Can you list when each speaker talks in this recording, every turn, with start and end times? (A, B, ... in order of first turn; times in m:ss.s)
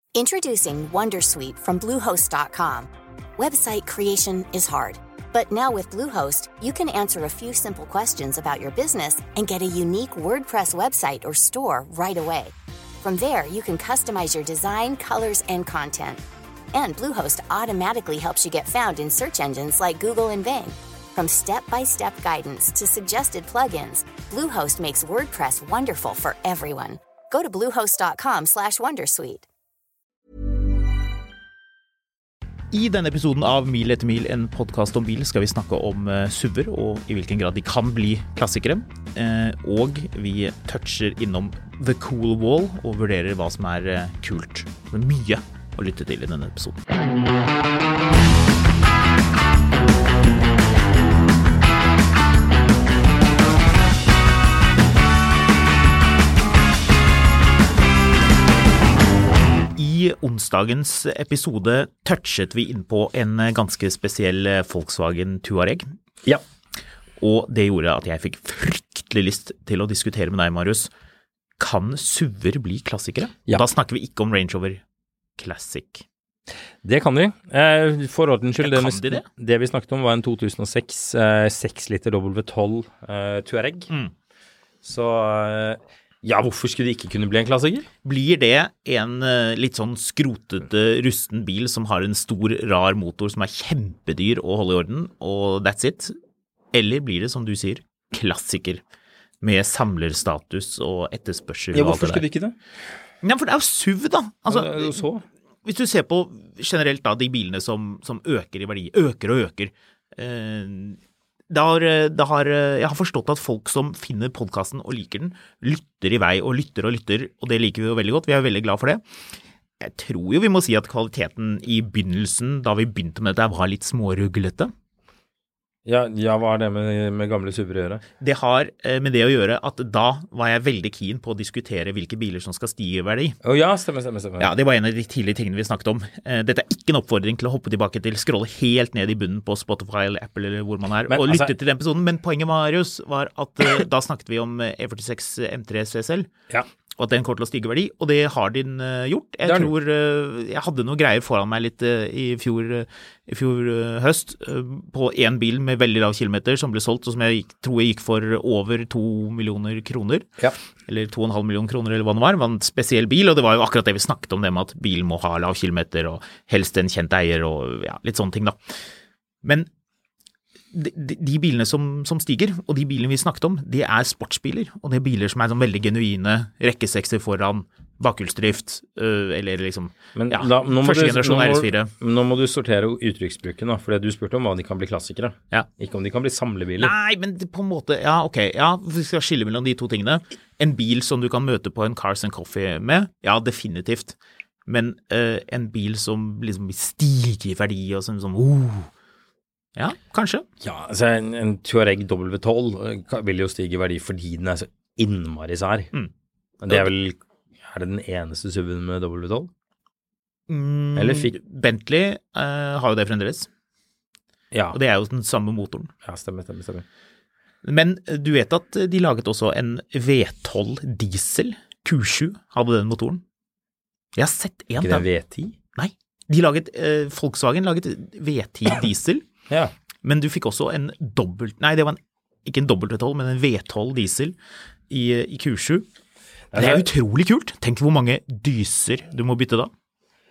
0:00.1-0:29.4 A
0:32.7-0:47.0 B
0:59.8-1:05.9 B
1:07.2-1:10.9 B
1:11.6-1:14.8 B
1:15.4-1:16.0 B
1:16.8-1:23.9 C
1:18.6-1:19.2 B
1:24.8-1:27.9 C
1:28.0-1:36.1 B
1:36.7-1:38.8 B
1:39.4-1:42.2 B
1:41.7-1:42.5 C
1:43.2-1:45.0 B
1:44.5-1:45.2 C
1:45.6-1:51.0 B
1:51.5-1:59.0 B
1:59.8-2:04.7 B
2:05.8-2:08.0 C
2:08.2-2:13.4 B
2:13.4-2:14.5 C
2:14.4-2:26.3 B
2:21.1-2:21.5 C
2:27.0-2:40.3 B
2:29.4-2:29.7 C
2:40.9-2:48.6 B
2:49.4-2:49.7 B
2:50.7-3:01.9 B
3:00.1-3:06.9 C
3:06.8-3:14.2 B
3:14.7-3:18.9 B
3:19.8-3:20.4 B
3:20.6-3:25.9 C
3:26.6-3:29.5 C
3:30.5-3:33.5 B
3:31.0-3:31.4 C
3:34.5-3:34.8 C
3:34.7-3:35.9 B
3:36.0-3:36.8 C
3:37.6-3:43.2 B
3:44.2-3:45.0 B
3:44.8-3:45.5 C
3:45.7-3:49.2 B
3:50.0-3:54.3 B
3:54.9-3:55.8 B
3:56.5-3:56.8 C
3:56.5-3:59.7 B